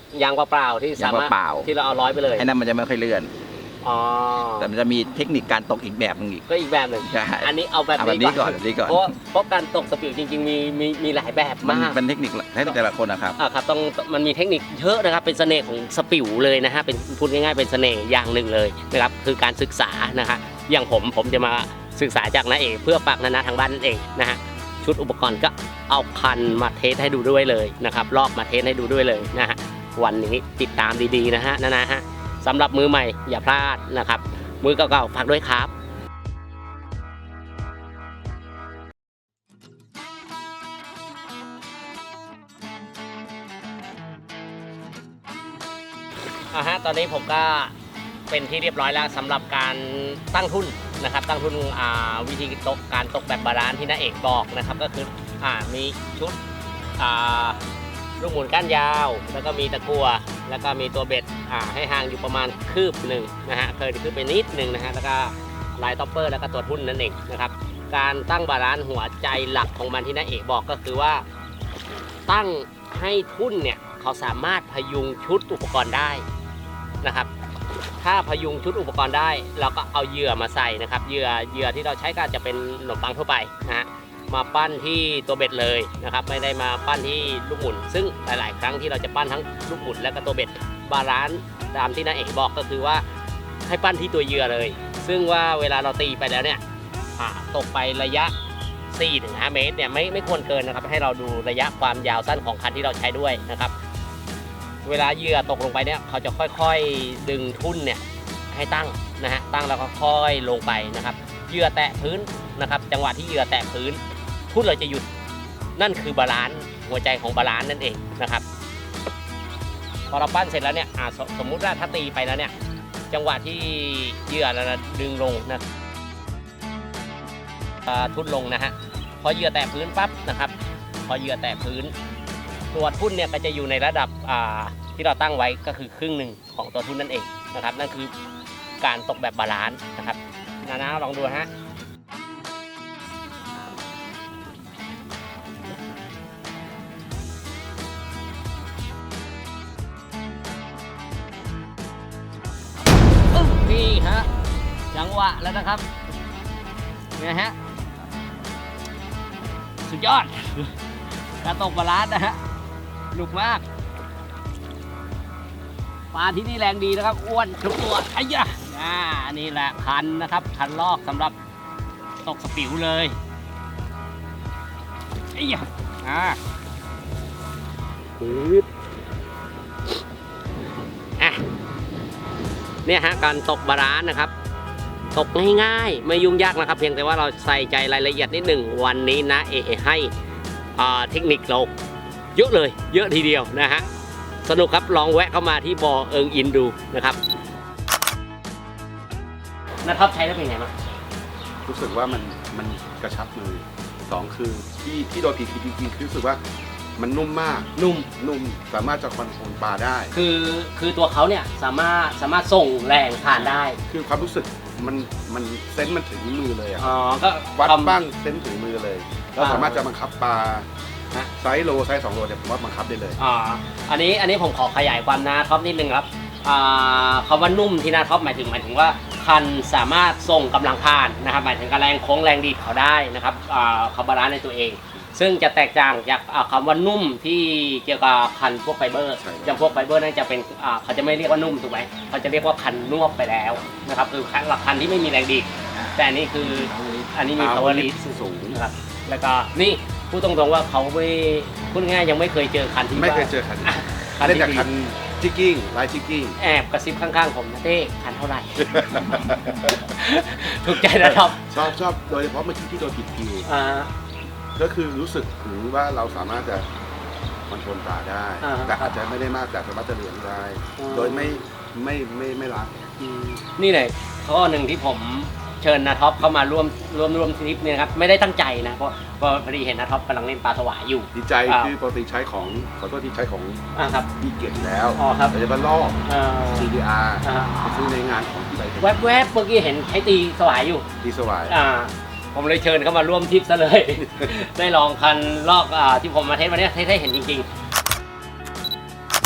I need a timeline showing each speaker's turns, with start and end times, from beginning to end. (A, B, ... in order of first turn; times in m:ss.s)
0:00.1-0:02.5 A
0:01.0-0:01.7 B
0:02.4-0:03.3 B
0:03.8-0:04.7 A
0:04.5-0:06.5 B
0:06.5-0:12.0 A
0:07.0-0:09.2 B
0:11.6-0:13.4 B
0:13.4-0:35.7 A
0:46.5-0:47.7 A
0:48.3-0:56.4 A
0:57.0-0:57.6 A
0:58.2-1:11.2 A
1:12.3-1:16.2 A
1:17.0-1:17.3 A
1:18.0-1:33.0 A
1:33.6-1:36.6 A
1:37.2-1:38.3 A
1:38.9-1:43.7 A
1:44.8-1:55.1 A
1:55.8-1:58.4 A
2:00.1-2:02.5 A
2:03.1-2:05.6 A
2:07.8-2:10.5 A
2:11.1-2:11.9 A
2:12.7-2:18.1 A
2:18.8-2:21.5 A
2:33.3-2:34.3 A
2:34.9-2:35.9 A
2:37.2-2:37.6 A
2:39.8-2:40.8 A
2:41.4-2:42.4 A
2:43.1-2:43.6 A
2:46.1-2:51.3 A
2:52.2-2:53.2 A
2:55.3-2:56.4 A
2:58.2-2:58.7 A
3:02.9-3:04.3 A
3:05.1-3:10.1 A
3:10.8-3:11.7 A
3:12.4-3:13.9 A
3:14.4-3:17.2 A
3:19.8-3:20.7 A
3:21.6-3:26.4 C
3:27.0-3:30.1 C
3:27.8-3:28.1 A
3:30.1-3:33.8 A
3:33.3-3:36.9 C
3:36.8-3:38.0 A
3:37.6-3:40.7 C
3:39.4-3:39.8 A
3:41.4-3:43.2 C
3:43.2-4:07.9 A
3:59.2-3:59.6 C
4:05.7-4:07.1 B
4:07.4-4:08.6 C
4:08.5-4:14.7 A
4:12.9-4:16.4 C
4:16.4-4:21.5 A
4:18.6-4:19.8 C
4:20.9-4:23.5 C
4:23.4-4:23.9 A
4:24.6-4:26.7 C
4:27.5-4:32.7 C
4:28.4-4:29.1 A
4:30.8-4:31.4 A
4:33.0-4:41.7 A
4:41.1-4:43.6 C
4:43.8-4:44.1 A
4:44.2-4:49.3 C
4:45.0-4:45.4 A
4:46.1-4:46.7 A
4:47.2-4:47.7 A
4:48.8-4:50.8 A
4:51.0-4:51.6 C
4:51.5-4:57.5 A
4:54.1-4:54.3 C